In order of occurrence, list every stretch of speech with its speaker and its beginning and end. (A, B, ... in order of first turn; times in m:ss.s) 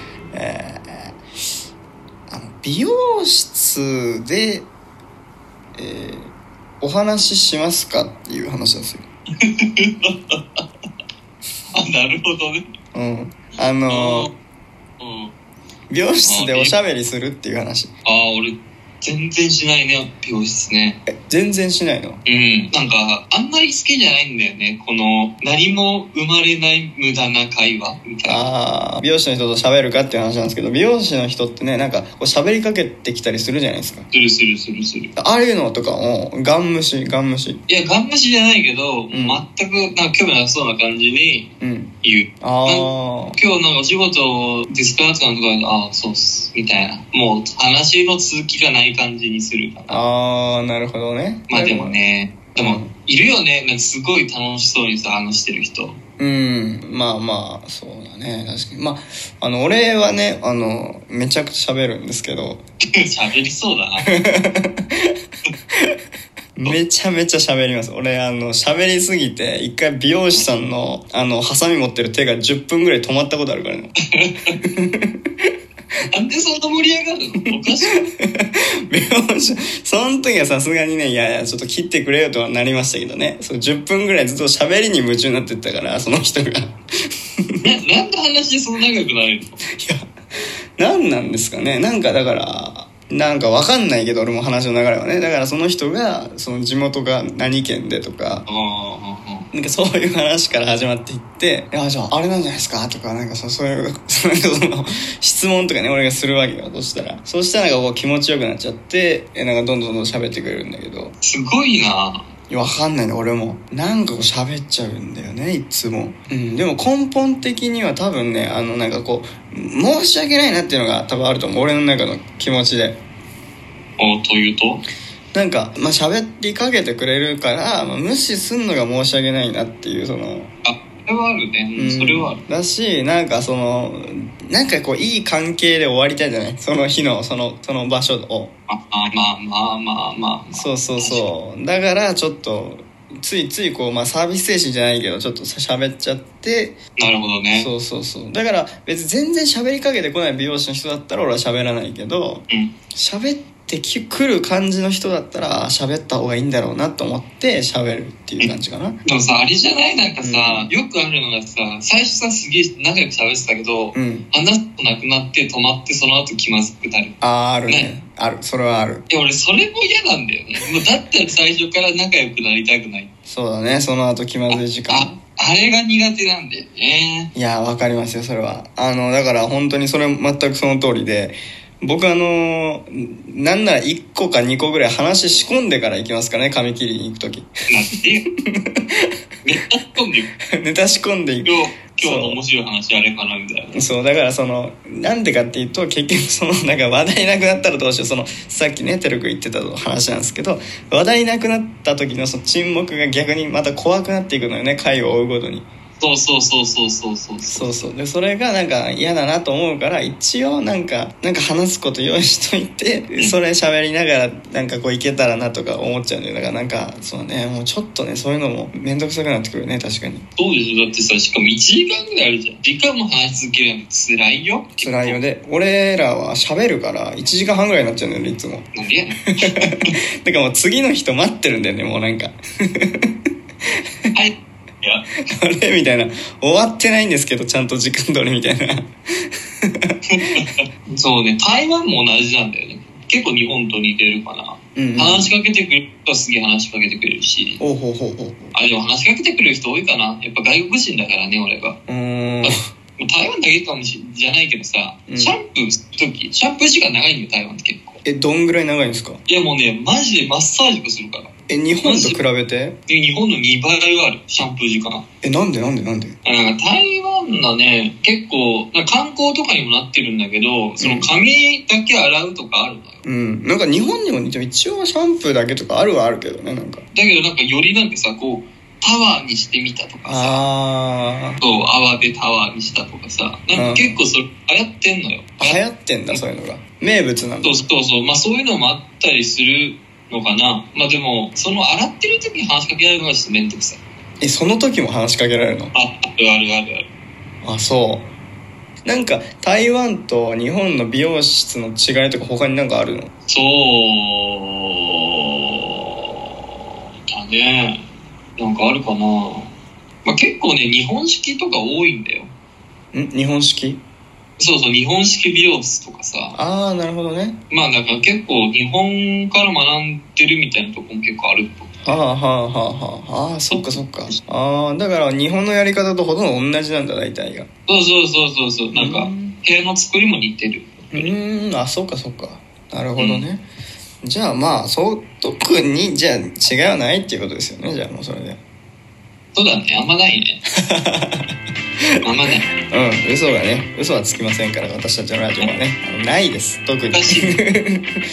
0:00.3-0:01.2 A
0:02.3-0:04.7 A
0:05.7-0:09.0 A
0:09.4-0:10.6 B
0:11.7-0:12.7 B
0:12.9-0:14.3 A
0:13.9-0:14.3 B
0:15.0-0:15.3 B
0:15.9-0:17.9 A
0:16.2-0:16.7 B
0:18.0-0:21.0 B
0:21.1-0:22.2 A
0:22.2-0:28.5 B
0:28.2-0:34.1 A
0:34.1-0:35.1 B
0:35.2-0:37.6 A
0:37.7-0:41.5 B
0:39.1-0:39.4 A
0:41.6-0:43.4 A
0:42.0-0:50.0 B
0:49.9-0:52.0 A
0:51.5-0:56.0 B
0:52.5-0:52.9 A
0:56.2-1:02.6 A
1:03.0-1:04.1 B
1:04.0-1:05.2 A
1:06.6-1:13.9 A
1:14.1-1:14.6 B
1:14.6-1:15.5 A
1:16.1-1:18.0 B
1:17.6-1:26.8 A
1:27.6-1:29.6 B
1:29.8-1:30.1 A
1:30.8-1:38.4 A
1:38.5-1:39.5 B
1:39.5-1:51.1 A
1:51.2-1:52.3 B
1:52.5-2:03.0 A
2:04.0-2:04.8 B
2:05.3-2:10.5 A
2:10.6-2:12.4 B
2:11.8-2:18.5 A
2:18.7-2:21.3 B
2:20.5-2:26.8 A
2:27.0-2:27.7 B
2:27.5-2:39.0 A
2:38.4-2:47.9 B
2:40.2-2:40.7 A
2:43.9-2:44.3 A
2:47.2-2:49.0 A
2:49.1-2:53.1 B
2:53.2-2:55.2 A
2:54.5-2:57.3 B
2:57.3-3:07.5 A
3:07.7-3:08.2 B
3:08.5-3:09.1 A
3:09.4-3:10.3 B
3:10.5-3:12.4 A
3:11.4-3:13.8 B
3:13.7-3:25.7 A
3:26.0-3:27.9 B
3:27.5-3:40.2 A
3:40.4-3:45.2 B
3:44.8-3:48.7 A
3:48.7-3:49.9 B
3:49.4-3:53.1 A
3:54.1-3:55.0 B
3:55.3-4:00.0 A
4:00.1-4:07.6 B
4:04.7-4:05.3 A
4:07.6-4:08.5 A
4:08.5-4:11.8 B
4:11.9-4:12.7 A
4:12.4-4:18.0 B
4:15.1-4:15.4 A
4:18.0-4:19.2 A
4:19.3-4:21.3 B
4:21.5-4:22.8 A
4:21.8-4:22.2 B
4:22.9-4:25.0 B
4:25.2-4:26.2 A
4:26.2-4:33.0 B
4:30.8-4:31.1 A
4:33.0-4:36.8 A
4:36.9-4:40.4 B
4:40.0-4:41.4 A
4:41.4-4:45.6 B
4:43.5-4:44.0 A
4:45.4-4:47.6 A
4:47.4-4:53.8 B
4:54.2-4:55.7 A
4:55.7-4:56.8 B
4:57.4-4:58.1 A
4:58.8-5:03.1 A
5:03.3-5:05.6 B
5:07.1-5:07.8 B
5:08.4-5:09.5 B
5:10.0-5:12.3 B
5:12.9-5:13.8 A
5:14.4-5:16.4 B
5:16.3-5:17.4 A
5:17.5-5:21.9 B
5:21.8-5:27.5 A
5:23.5-5:24.1 B
5:27.7-5:31.1 B
5:28.7-5:29.4 A
5:30.9-5:33.4 A
5:33.0-5:33.3 B
5:34.0-5:38.4 A
5:39.3-5:40.4 B
5:40.6-5:41.4 A
5:42.0-5:42.5 B
5:42.7-5:48.0 A
5:46.9-5:47.4 B